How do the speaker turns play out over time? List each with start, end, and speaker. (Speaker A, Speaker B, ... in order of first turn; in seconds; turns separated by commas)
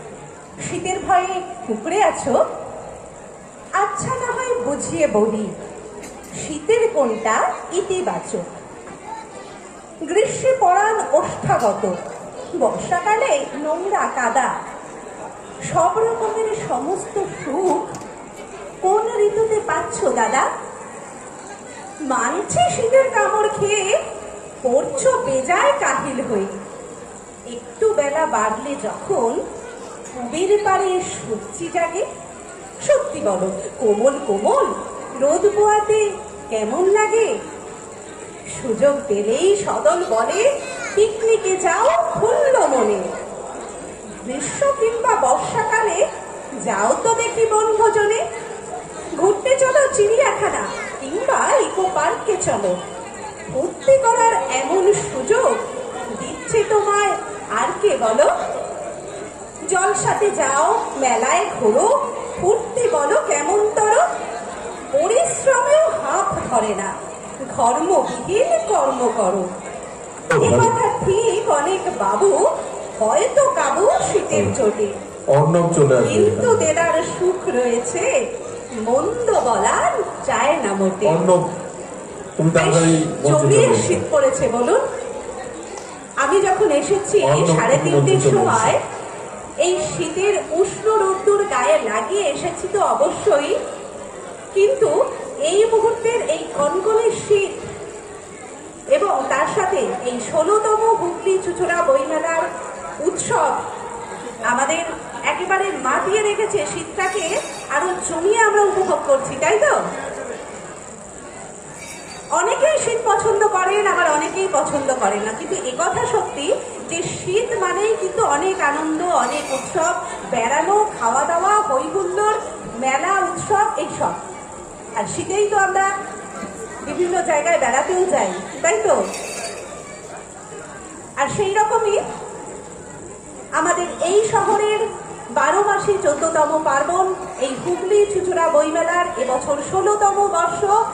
Speaker A: 0.6-2.4, Speaker A: 3.8-5.5, Speaker A: 6.4-8.4, Speaker A: 10.1-11.9, Speaker A: 12.6-14.5, Speaker A: 15.7-17.9, Speaker A: 18.8-20.5, Speaker A: 22.1-23.9, Speaker A: 24.6-26.5, Speaker A: 27.5-29.4, Speaker A: 30.1-32.0, Speaker A: 32.8-37.3, Speaker A: 38.5-43.1, Speaker A: 44.2-46.0, Speaker A: 46.6-48.2, Speaker A: 49.2-52.8, Speaker A: 53.5-55.6, Speaker A: 56.1-58.3, Speaker A: 59.7-64.0, Speaker A: 64.9-66.9, Speaker A: 67.5-69.5, Speaker B: 70.3-70.7, Speaker A: 70.4-72.4, Speaker A: 73.0-74.9, Speaker B: 74.3-74.6, Speaker B: 75.3-76.7, Speaker A: 76.0-78.1, Speaker A: 78.8-81.2, Speaker B: 81.0-81.4, Speaker B: 82.4-84.0, Speaker A: 82.5-84.8, Speaker A: 86.2-88.8, Speaker B: 87.2-88.7, Speaker A: 89.6-93.5, Speaker A: 94.5-94.9, Speaker A: 95.5-97.6, Speaker A: 98.9-102.5, Speaker A: 103.0-103.6, Speaker A: 104.5-109.8, Speaker A: 112.3-124.2, Speaker A: 125.0-125.9, Speaker A: 126.8-129.0, Speaker A: 131.2-132.0, Speaker A: 133.6-134.8, Speaker A: 135.3-140.7